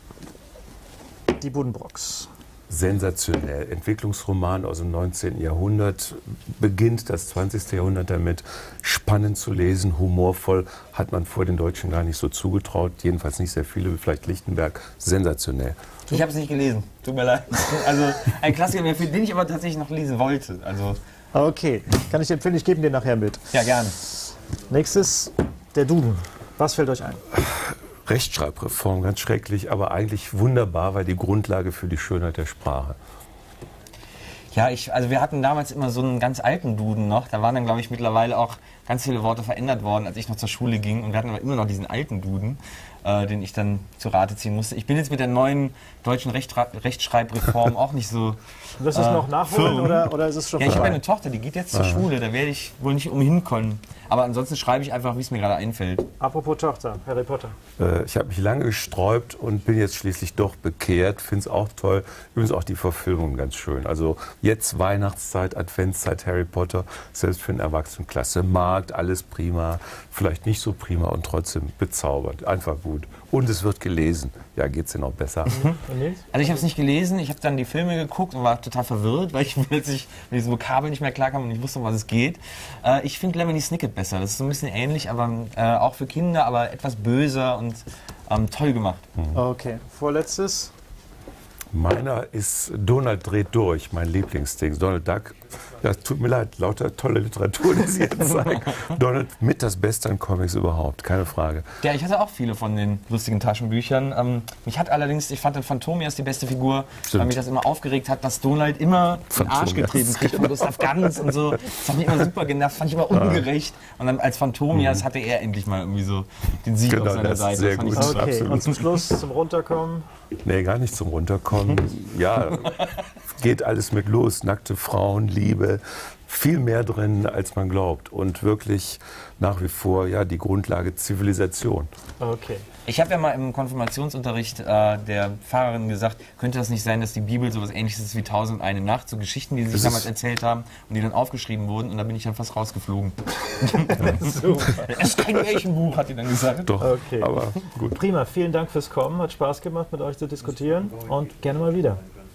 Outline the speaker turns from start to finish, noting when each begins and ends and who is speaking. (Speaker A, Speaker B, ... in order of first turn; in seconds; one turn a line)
Speaker A: 1.4-2.3
Speaker B: 2.7-15.8
Speaker C: 16.1-21.0
Speaker A: 21.3-23.5
Speaker C: 23.5-24.0
Speaker A: 24.7-27.2
Speaker B: 27.3-33.0
Speaker C: 34.5-56.1
Speaker A: 48.8-51.0
Speaker B: 50.7-51.0
Speaker B: 51.7-52.1
Speaker A: 56.2-57.5
Speaker B: 57.8-75.7
Speaker A: 75.6-76.3
Speaker C: 76.3-89.0
Speaker A: 89.3-90.7
Speaker B: 91.7-101.7
Speaker C: 98.4-98.9
Speaker C: 101.8-118.8
Speaker B: 107.1-107.4
Speaker B: 109.3-111.4
Speaker B: 113.1-113.5
Speaker B: 114.7-115.0
Speaker B: 116.9-118.9
Speaker A: 118.0-120.1
Speaker B: 120.4-122.7
Speaker B: 123.4-131.9
Speaker A: 132.2-132.6
Speaker C: 132.9-146.7
Speaker B: 139.7-140.1
Speaker B: 146.7-148.0
Speaker A: 146.8-152.0